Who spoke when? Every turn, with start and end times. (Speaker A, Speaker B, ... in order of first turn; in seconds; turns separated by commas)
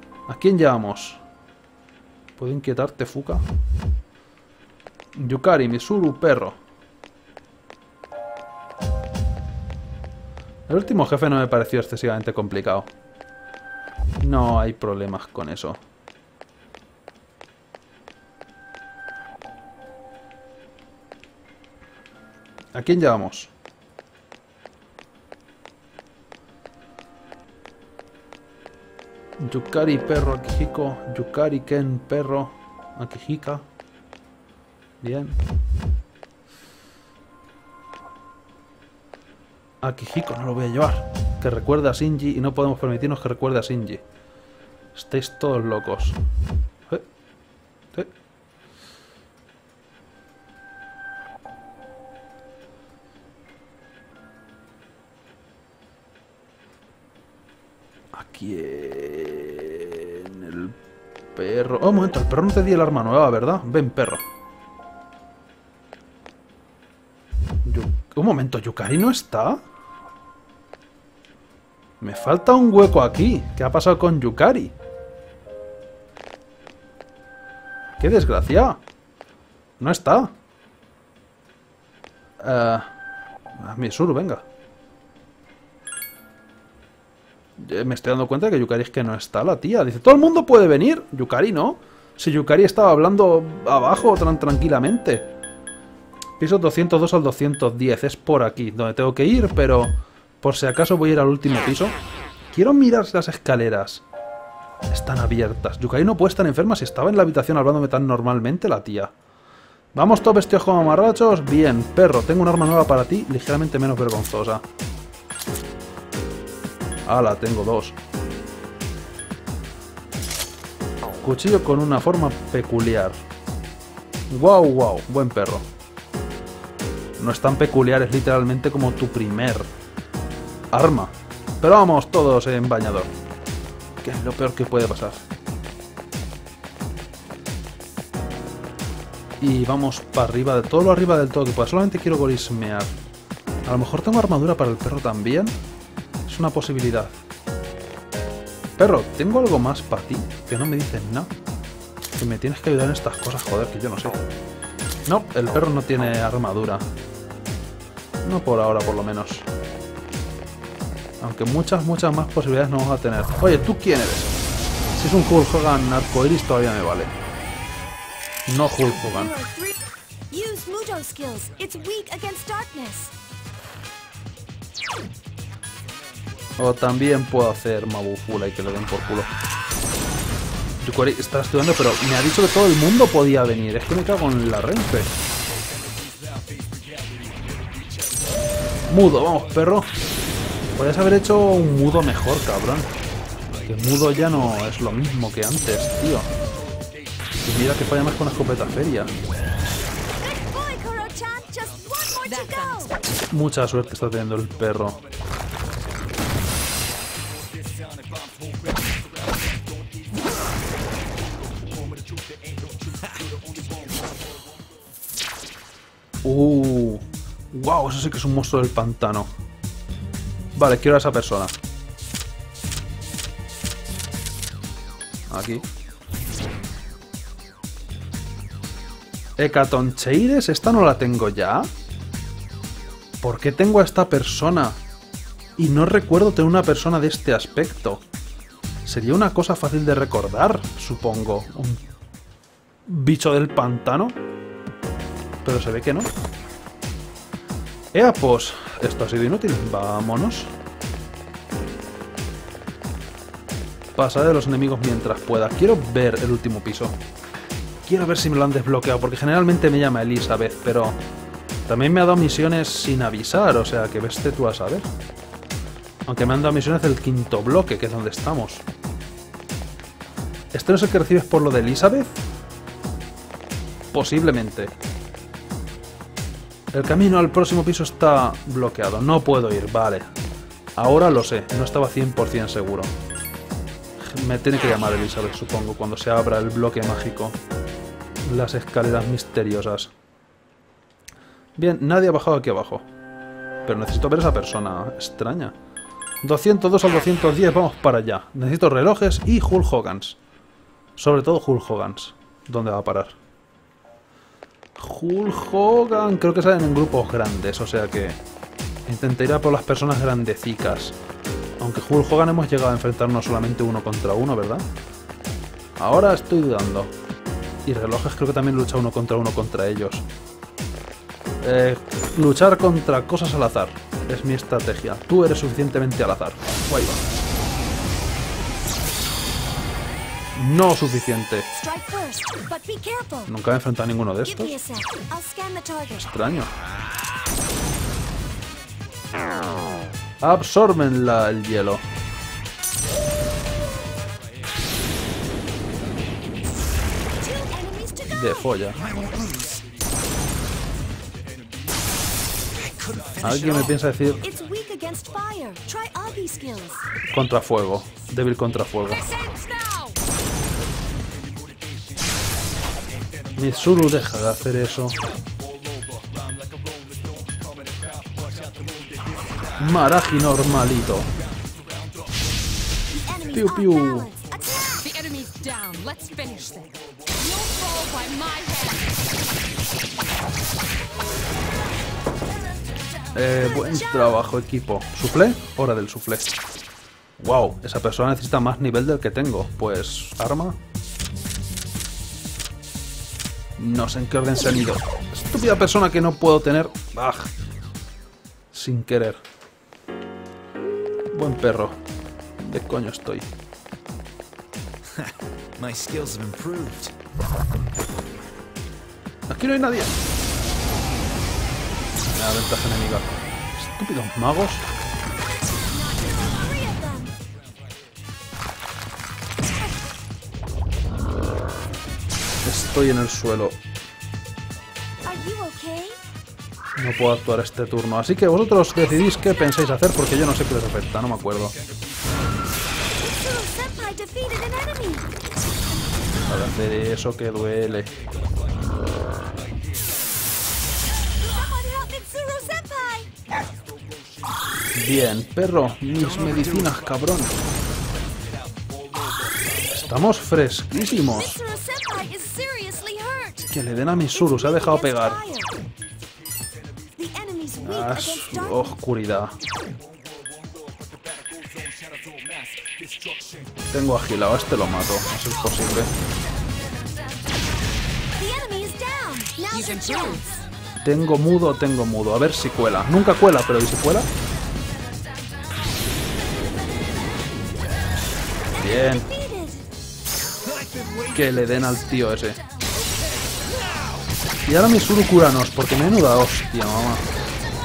Speaker A: 0.3-1.2, Speaker A: 2.4-3.5, Speaker A: 5.2-6.6, Speaker A: 10.7-12.9, Speaker A: 14.2-15.8, Speaker A: 22.7-23.5, Speaker A: 29.4-33.6, Speaker A: 35.0-35.4, Speaker A: 39.8-44.0, Speaker A: 45.0-46.2, Speaker A: 58.1-60.8, Speaker A: 61.4-64.2, Speaker A: 67.7-69.6, Speaker A: 72.0-74.7, Speaker A: 78.0-78.8, Speaker A: 79.8-80.3, Speaker A: 82.4-82.9, Speaker A: 83.6-84.4, Speaker A: 87.6-95.3, Speaker A: 96.4-102.0, Speaker A: 102.5-104.0, Speaker A: 104.9-109.1, Speaker A: 110.0-114.6, Speaker A: 117.1-118.0, Speaker A: 121.2-123.2, Speaker A: 124.3-125.7, Speaker A: 127.2-129.7, Speaker A: 130.7-133.1, Speaker A: 134.0-135.2, Speaker A: 139.4-142.9, Speaker A: 143.7-145.5, Speaker A: 146.3-147.2, Speaker A: 148.8-151.3, Speaker A: 152.2-154.2, Speaker A: 155.1-156.8, Speaker A: 158.2-159.5, Speaker A: 161.2-164.3, Speaker A: 165.0-167.1, Speaker A: 168.5-169.3, Speaker B: 168.9-169.8, Speaker B: 170.3-173.1, Speaker A: 176.6-179.3, Speaker A: 180.8-185.1, Speaker A: 188.9-189.9, Speaker A: 190.7-192.9, Speaker A: 193.7-196.3, Speaker A: 197.4-199.1, Speaker B: 200.2-203.0, Speaker C: 202.2-203.0, Speaker A: 203.3-205.0, Speaker D: 212.9-213.4, Speaker A: 216.2-219.3, Speaker A: 220.6-221.5, Speaker A: 225.3-225.7, Speaker A: 229.4-231.7, Speaker A: 233.2-234.8, Speaker A: 235.6-238.0, Speaker A: 238.8-241.8, Speaker A: 242.9-244.2, Speaker A: 245.4-246.1, Speaker A: 247.9-250.5, Speaker A: 254.0-256.9, Speaker A: 257.9-261.0, Speaker A: 261.7-264.9, Speaker A: 266.1-268.6, Speaker A: 270.5-272.2, Speaker A: 273.9-274.7, Speaker A: 276.7-280.1, Speaker A: 280.8-282.9, Speaker A: 284.0-287.4, Speaker A: 288.2-289.9, Speaker A: 291.6-292.9, Speaker A: 293.6-295.6, Speaker A: 296.2-300.2, Speaker A: 301.0-303.2, Speaker A: 304.8-308.2, Speaker A: 308.9-311.0, Speaker A: 311.6-314.6, Speaker A: 315.8-316.9, Speaker A: 317.7-320.1, Speaker A: 321.4-327.0, Speaker A: 330.4-331.5, Speaker B: 331.5-333.3, Speaker A: 333.3-334.6, Speaker B: 334.2-336.1, Speaker A: 336.0-336.5, Speaker A: 340.2-341.8, Speaker B: 347.1-348.7, Speaker A: 348.1-348.8, Speaker D: 348.7-349.7, Speaker D: 352.5-353.8, Speaker A: 353.2-354.2, Speaker B: 354.2-356.9, Speaker A: 357.1-359.1, Speaker C: 359.0-360.0, Speaker A: 363.4-365.0, Speaker D: 367.8-368.7, Speaker A: 369.6-371.1, Speaker B: 372.9-374.9, Speaker A: 373.3-374.1, Speaker C: 374.8-379.0, Speaker B: 377.2-377.6, Speaker A: 383.1-386.3, Speaker B: 383.3-384.2, Speaker A: 387.2-390.6, Speaker A: 393.6-397.3, Speaker A: 398.5-399.2, Speaker A: 401.1-401.8, Speaker A: 402.4-403.3, Speaker D: 404.9-406.9, Speaker A: 409.3-409.9, Speaker A: 412.1-414.6, Speaker B: 415.4-417.2, Speaker A: 422.4-423.6, Speaker B: 425.0-426.0, Speaker A: 426.8-431.6, Speaker B: 432.9-435.1, Speaker A: 436.3-437.9, Speaker B: 441.0-443.2, Speaker A: 444.8-447.4, Speaker D: 445.9-446.9, Speaker A: 449.7-451.4, Speaker B: 451.0-453.5, Speaker A: 453.5-455.2, Speaker B: 454.1-455.5, Speaker B: 457.0-458.8, Speaker A: 457.6-459.4, Speaker D: 461.8-463.4, Speaker A: 463.7-465.9, Speaker B: 468.1-470.4, Speaker C: 469.5-470.2, Speaker A: 470.8-474.1, Speaker B: 478.6-479.7, Speaker A: 478.6-479.1, Speaker D: 480.3-482.0, Speaker A: 481.1-482.4, Speaker D: 482.8-484.1, Speaker A: 484.5-487.1